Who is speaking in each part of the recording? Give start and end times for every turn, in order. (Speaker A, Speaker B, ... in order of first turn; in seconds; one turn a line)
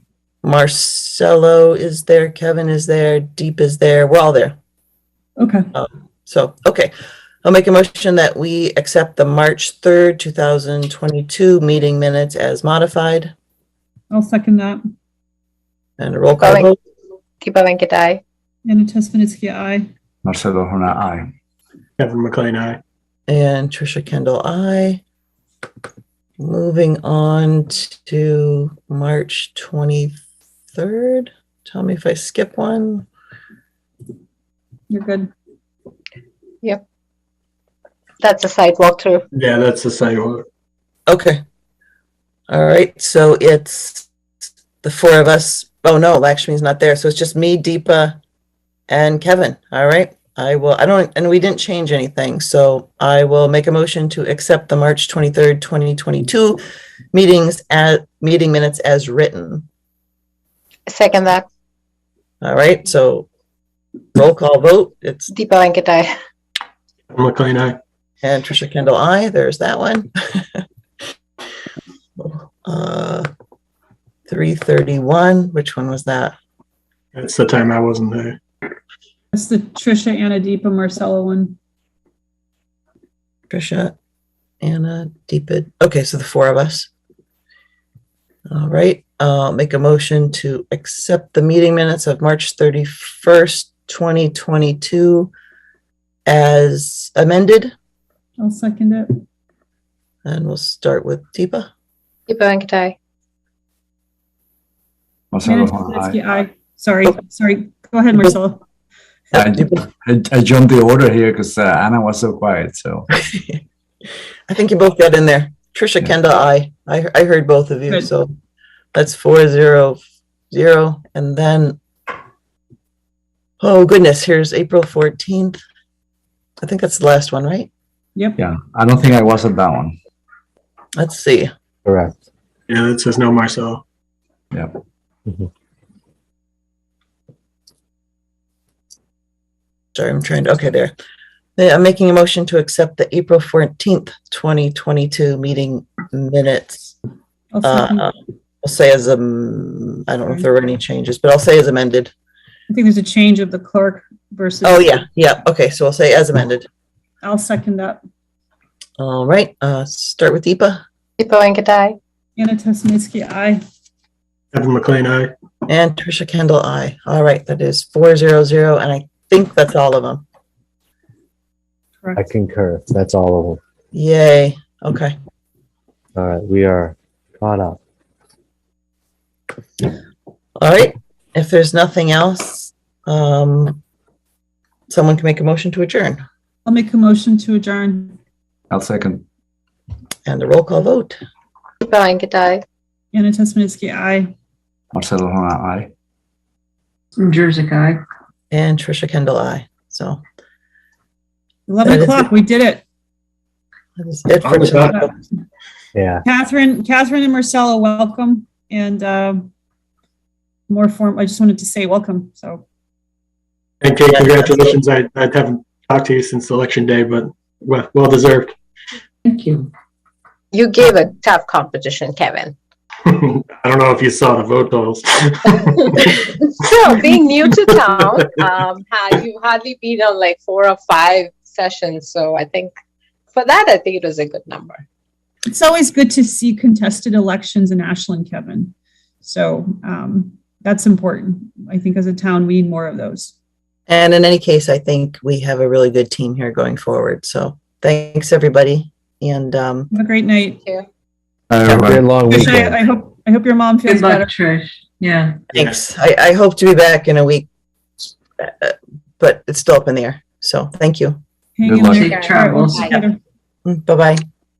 Speaker A: 0.4-4.5
Speaker B: 5.4-5.7
Speaker A: 5.7-6.9
Speaker A: 7.4-13.3
Speaker B: 14.1-14.8
Speaker A: 16.0-16.8
Speaker C: 16.4-16.7
Speaker C: 17.4-18.2
Speaker B: 18.6-19.9
Speaker D: 20.2-21.3
Speaker E: 22.0-22.8
Speaker A: 23.3-25.0
Speaker A: 26.4-30.2
Speaker A: 30.7-33.0
Speaker B: 34.9-35.3
Speaker C: 38.2-39.2
Speaker E: 39.3-40.5
Speaker A: 41.1-41.4
Speaker A: 42.5-44.1
Speaker A: 44.8-48.2
Speaker A: 48.9-56.6
Speaker A: 57.1-59.6
Speaker C: 60.9-61.4
Speaker A: 62.4-63.3
Speaker A: 64.1-65.3
Speaker C: 65.3-66.1
Speaker E: 67.1-67.8
Speaker A: 68.2-70.6
Speaker A: 72.2-73.3
Speaker A: 74.3-76.3
Speaker E: 77.1-78.4
Speaker B: 79.3-81.5
Speaker A: 83.5-83.9
Speaker A: 84.6-86.9
Speaker A: 88.5-95.3
Speaker A: 96.2-97.7
Speaker B: 98.4-99.1
Speaker A: 100.2-101.7
Speaker C: 102.3-103.0
Speaker D: 105.3-106.2
Speaker B: 105.4-108.6
Speaker D: 109.3-113.1
Speaker A: 113.2-113.6
Speaker A: 114.5-118.3
Speaker A: 118.9-120.0
Speaker A: 120.5-121.8
Speaker A: 123.6-125.6
Speaker A: 126.6-127.7
Speaker D: 128.4-130.0
Speaker A: 131.0-131.5
Speaker F: 131.8-132.2
Speaker E: 132.7-133.8
Speaker A: 139.9-140.9
Speaker A: 141.6-146.9
Speaker B: 147.5-148.0
Speaker A: 147.6-152.1
Speaker B: 152.7-155.0
Speaker A: 154.6-156.7
Speaker B: 157.2-158.0
Speaker A: 159.0-160.8
Speaker C: 161.2-162.0
Speaker B: 162.4-163.6
Speaker E: 164.5-165.3
Speaker A: 165.7-170.2
Speaker F: 172.2-173.6
Speaker A: 173.9-175.1
Speaker F: 176.1-177.8
Speaker A: 180.6-183.8
Speaker A: 184.9-186.2
Speaker B: 186.7-188.2
Speaker D: 188.7-189.2
Speaker A: 190.2-191.2
Speaker C: 191.8-192.6
Speaker B: 193.1-194.3
Speaker D: 194.9-195.9
Speaker G: 197.2-198.0
Speaker A: 198.5-200.2
Speaker B: 201.7-202.8
Speaker A: 201.8-202.3
Speaker A: 204.0-205.1
Speaker E: 204.4-205.0
Speaker F: 205.9-206.2
Speaker B: 206.2-209.5
Speaker B: 210.7-212.6
Speaker E: 213.8-218.5
Speaker A: 214.1-214.7
Speaker G: 219.2-219.7
Speaker C: 220.5-222.5
Speaker E: 223.1-226.1
Speaker C: 225.8-232.7
Speaker C: 233.3-234.8
Speaker B: 235.5-243.3
Speaker A: 243.9-249.9
Speaker B: 249.9-250.7
Speaker D: 251.5-252.0
Speaker F: 251.6-252.8
Speaker B: 252.3-254.3
Speaker G: 253.8-255.4
Speaker A: 255.5-257.5
Speaker A: 258.4-261.2
Speaker B: 261.6-263.2
Speaker D: 261.6-262.1
Speaker C: 261.9-263.0
Speaker G: 261.9-262.9
Speaker A: 263.6-264.2